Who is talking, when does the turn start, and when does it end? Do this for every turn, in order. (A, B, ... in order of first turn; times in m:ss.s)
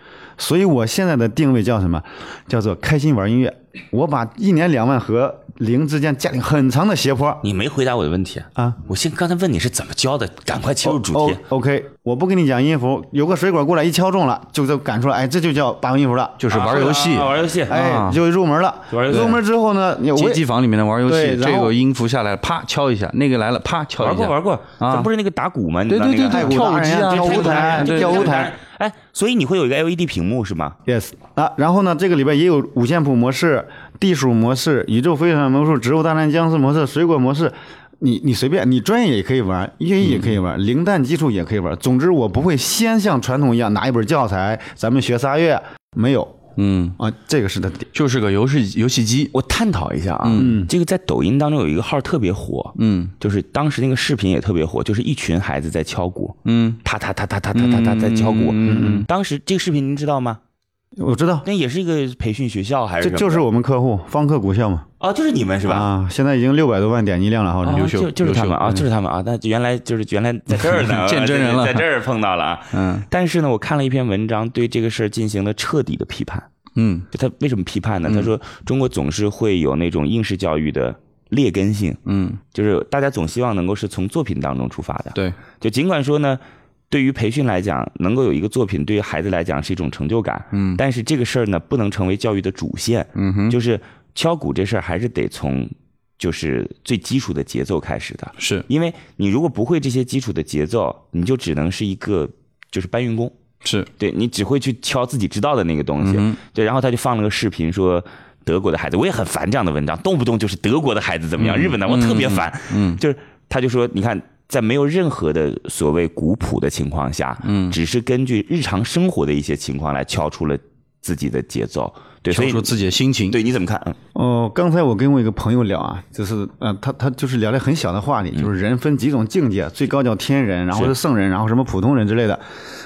0:00.4-0:07.4 A
0:07.4-0:11.4 B
0:08.6-0:08.8 A
0:10.8-0:16.8 A
0:16.4-0:18.2 C
0:16.5-0:17.8 B
0:17.7-0:20.4 A
0:18.9-0:19.4 B
0:19.1-0:19.4 C
0:20.1-0:25.1 C
0:21.0-0:21.8 A
0:24.0-0:30.8 B
0:25.9-0:28.3 C
0:26.3-0:28.6 A
0:30.9-0:46.4 A
0:40.0-0:40.3 C
0:46.6-0:47.0 C
0:47.0-0:47.9 A
0:47.9-0:49.3 C
0:49.3-1:00.4 B
0:50.2-0:50.6 C
0:50.4-0:50.7 A
0:52.8-0:53.1 C
0:56.5-0:56.8 C
0:57.5-0:59.1 C
0:58.6-0:59.1 A
1:01.0-1:01.4 A
1:01.4-1:03.4 B
1:03.0-1:04.9 A
1:05.0-1:05.9 B
1:05.6-1:08.0 A
1:07.6-1:16.5 B
1:07.7-1:08.8 C
1:10.5-1:11.9 C
1:12.7-1:13.1 C
1:16.8-1:17.1 C
1:17.1-1:22.0 B
1:22.1-1:22.4 C
1:22.5-1:43.3 B
1:30.5-1:30.8 C
1:33.2-1:33.6 C
1:38.4-1:38.6 C
1:43.6-1:43.9 C
1:44.0-2:02.8 B
1:46.0-1:46.4 C
1:51.4-1:53.0 C
1:57.4-1:57.8 C
2:02.3-2:03.4 C
2:03.3-2:04.0 B
2:04.2-2:12.4 A